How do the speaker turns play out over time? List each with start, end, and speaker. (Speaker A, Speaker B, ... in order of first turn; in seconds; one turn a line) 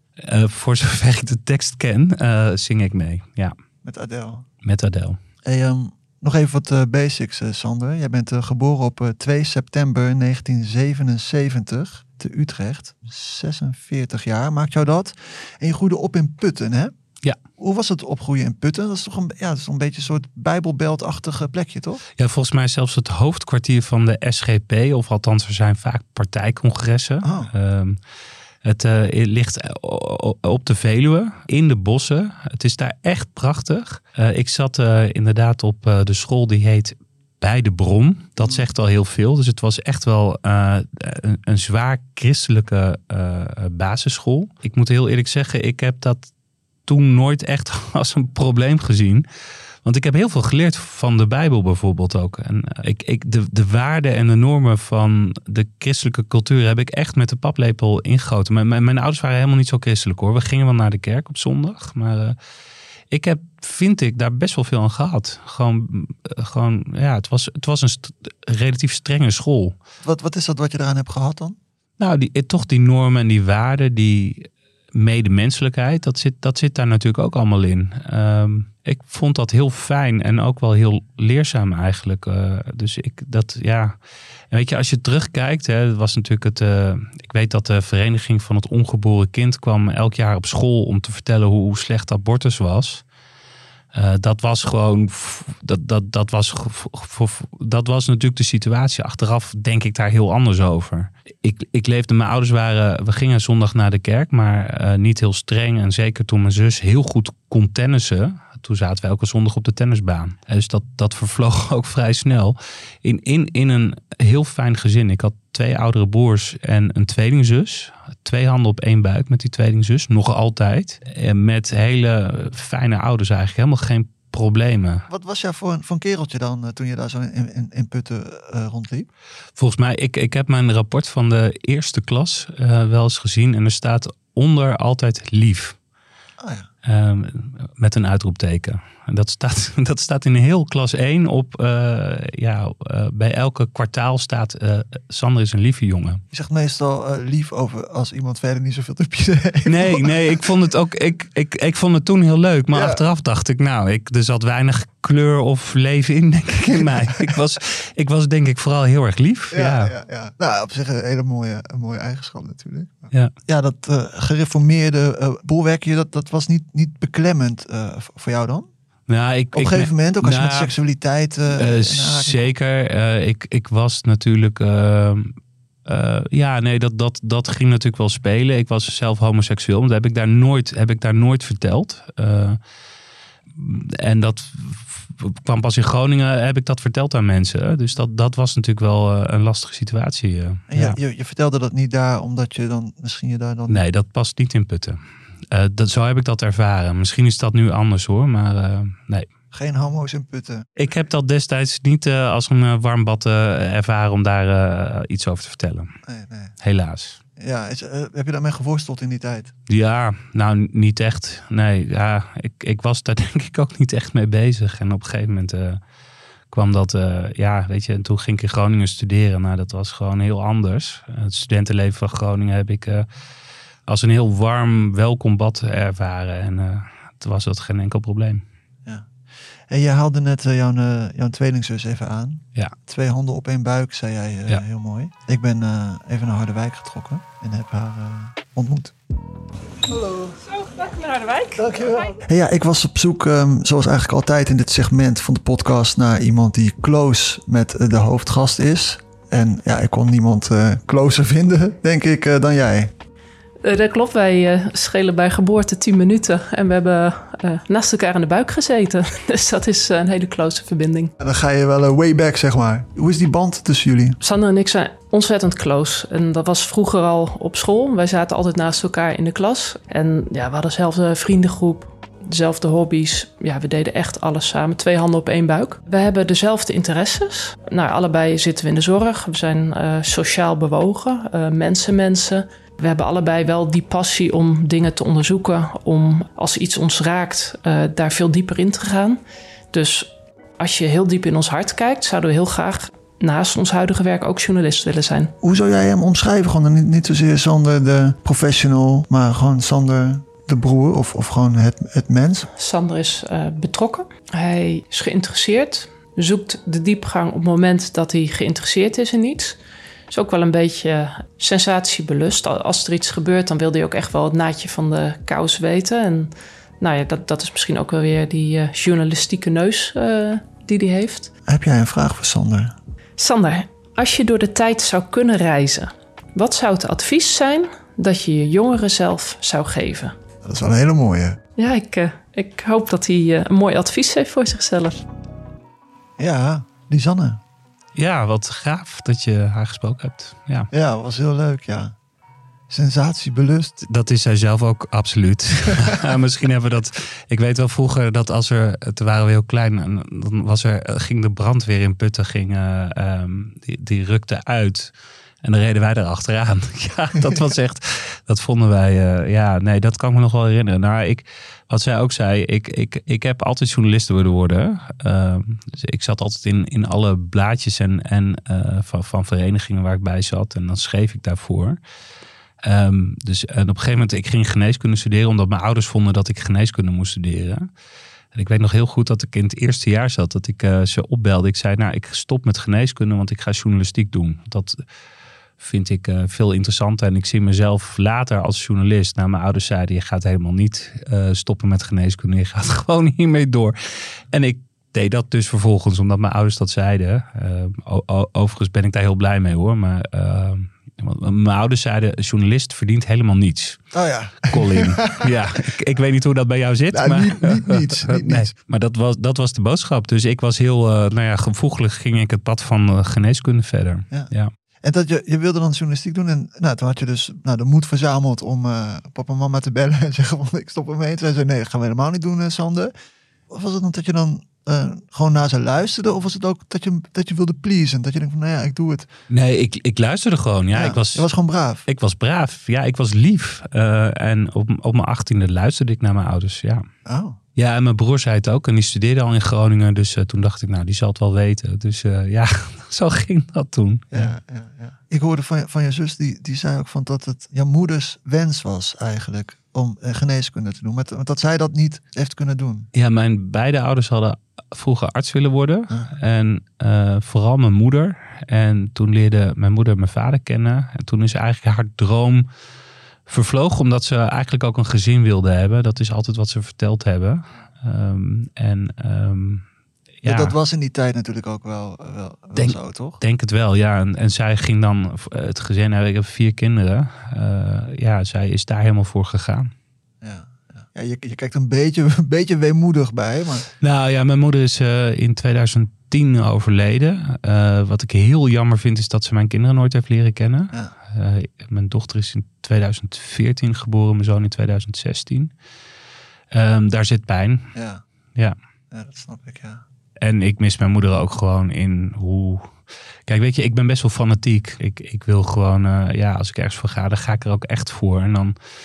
Speaker A: 0.2-3.5
Speaker B: 3.8-4.5
Speaker A: 4.6-5.2
Speaker B: 5.4-16.9
Speaker B: 17.6-22.0
Speaker A: 22.2-28.0
Speaker B: 27.2-27.5
Speaker A: 28.6-46.3
Speaker B: 38.4-38.6
Speaker A: 46.9-49.2
Speaker A: 49.8-62.4
Speaker A: 63.1-69.8
Speaker B: 70.0-71.6
Speaker A: 72.0-84.0
Speaker A: 84.5-93.0
Speaker A: 93.9-125.1
Speaker B: 125.1-129.1
Speaker A: 129.6-135.8
Speaker B: 136.4-136.7
Speaker A: 136.8-146.2
Speaker B: 146.3-150.4
Speaker A: 149.7-159.9
Speaker B: 152.7-153.0
Speaker B: 156.7-157.4
Speaker B: 159.5-168.7
Speaker A: 169.1-170.7
Speaker B: 169.5-172.5
Speaker A: 171.5-175.3
Speaker A: 175.8-182.6
Speaker A: 183.6-191.0
Speaker B: 190.7-193.8
Speaker A: 193.7-195.0
Speaker A: 195.5-199.3
Speaker B: 199.5-200.9
Speaker A: 200.8-205.9
Speaker B: 206.1-206.5
Speaker A: 206.6-207.2
Speaker B: 207.4-209.5
Speaker A: 209.7-215.8
Speaker A: 216.5-223.1
Speaker A: 223.9-228.4
Speaker B: 229.7-238.9
Speaker B: 239.9-240.3
Speaker C: 240.4-242.1
Speaker B: 241.6-252.9
Speaker C: 253.6-261.1
Speaker B: 261.2-264.2
Speaker C: 264.2-289.2
Speaker C: 289.7-295.3
Speaker B: 295.4-302.5
Speaker C: 302.6-309.6
Speaker C: 310.1-321.3
Speaker B: 321.5-322.7
Speaker C: 323.2-330.1
Speaker B: 330.4-331.4
Speaker C: 331.6-335.0
Speaker B: 336.2-337.4
Speaker A: 337.9-340.7
Speaker B: 340.7-341.9
Speaker B: 342.7-343.7
Speaker A: 343.8-371.8
Speaker B: 345.7-346.1
Speaker A: 372.6-377.7
Speaker A: 378.3-384.8
Speaker A: 385.6-393.8
Speaker A: 394.3-403.8
Speaker B: 403.9-405.3
Speaker A: 404.5-414.5
Speaker B: 406.9-408.5
Speaker B: 414.8-422.9
Speaker B: 423.5-429.1
Speaker A: 429.3-431.3
Speaker B: 430.7-431.9
Speaker A: 431.9-436.9
Speaker B: 437.1-437.4
Speaker A: 437.6-444.3
Speaker B: 444.1-452.9
Speaker A: 452.9-462.5
Speaker A: 463.3-469.6
Speaker A: 470.2-470.6
Speaker B: 470.2-473.2
Speaker A: 472.6-479.7
Speaker B: 480.2-483.7
Speaker A: 483.8-495.5
Speaker A: 496.5-497.7
Speaker B: 497.7-498.0
Speaker B: 498.9-499.8
Speaker A: 500.2-502.7
Speaker A: 503.3-508.6